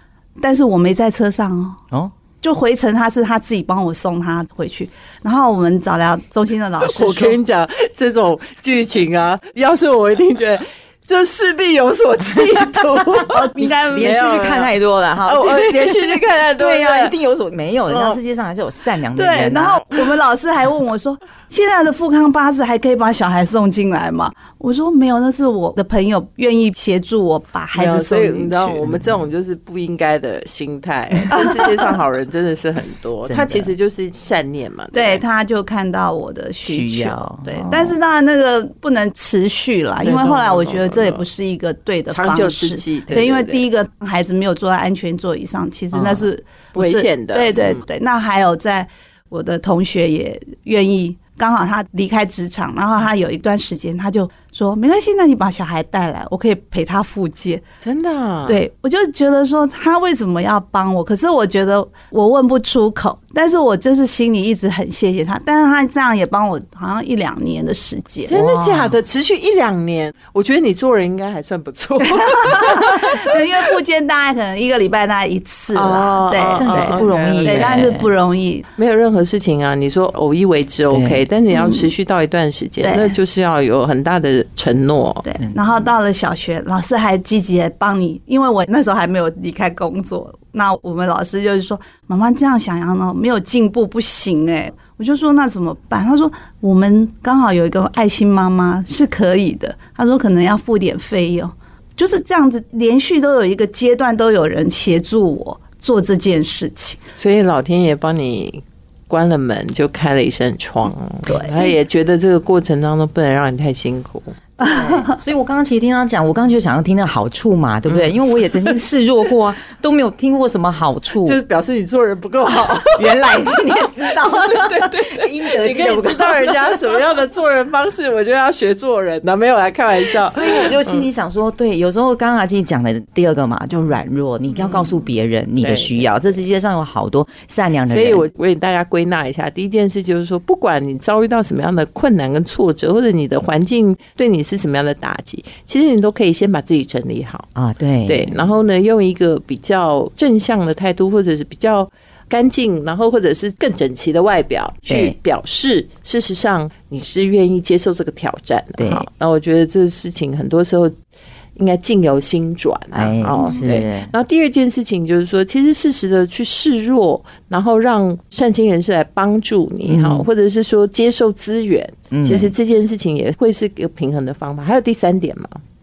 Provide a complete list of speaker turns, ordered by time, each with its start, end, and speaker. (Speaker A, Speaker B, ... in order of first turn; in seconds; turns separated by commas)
Speaker A: 0.4-1.8, Speaker A: 2.4-7.4, Speaker B: 6.8-17.1, Speaker A: 13.3-14.5, Speaker C: 13.6-19.9, Speaker B: 17.9-18.2, Speaker A: 19.1-28.8, Speaker B: 27.7-35.2, Speaker C: 28.8-29.2, Speaker C: 33.2-33.7, Speaker A: 34.9-57.6, Speaker C: 36.6-37.9, Speaker B: 40.0-41.2, Speaker B: 42.1-43.6, Speaker C: 45.9-46.3, Speaker B: 46.7-47.8, Speaker B: 57.8-58.6, Speaker A: 58.5-68.3, Speaker B: 68.3-73.4, Speaker C: 68.3-69.0, Speaker A: 72.1-78.7, Speaker B: 75.7-77.9, Speaker C: 76.6-78.1, Speaker B: 78.8-85.2, Speaker C: 80.9-81.2, Speaker A: 81.5-81.9, Speaker A: 82.8-83.2, Speaker A: 85.2-107.0, Speaker B: 107.2-114.4, Speaker A: 111.3-111.8, Speaker C: 114.6-121.4, Speaker B: 117.9-118.8, Speaker B: 121.2-131.1, Speaker C: 122.8-126.8, Speaker C: 130.3-138.2, Speaker B: 134.6-134.9, Speaker B: 135.6-136.1, Speaker B: 137.9-147.5, Speaker C: 147.5-148.4, Speaker B: 148.1-160.9, Speaker C: 154.9-155.1, Speaker C: 158.8-159.1, Speaker B: 161.6-175.6, Speaker C: 162.9-164.1, Speaker C: 169.8-170.2, Speaker C: 172.1-172.5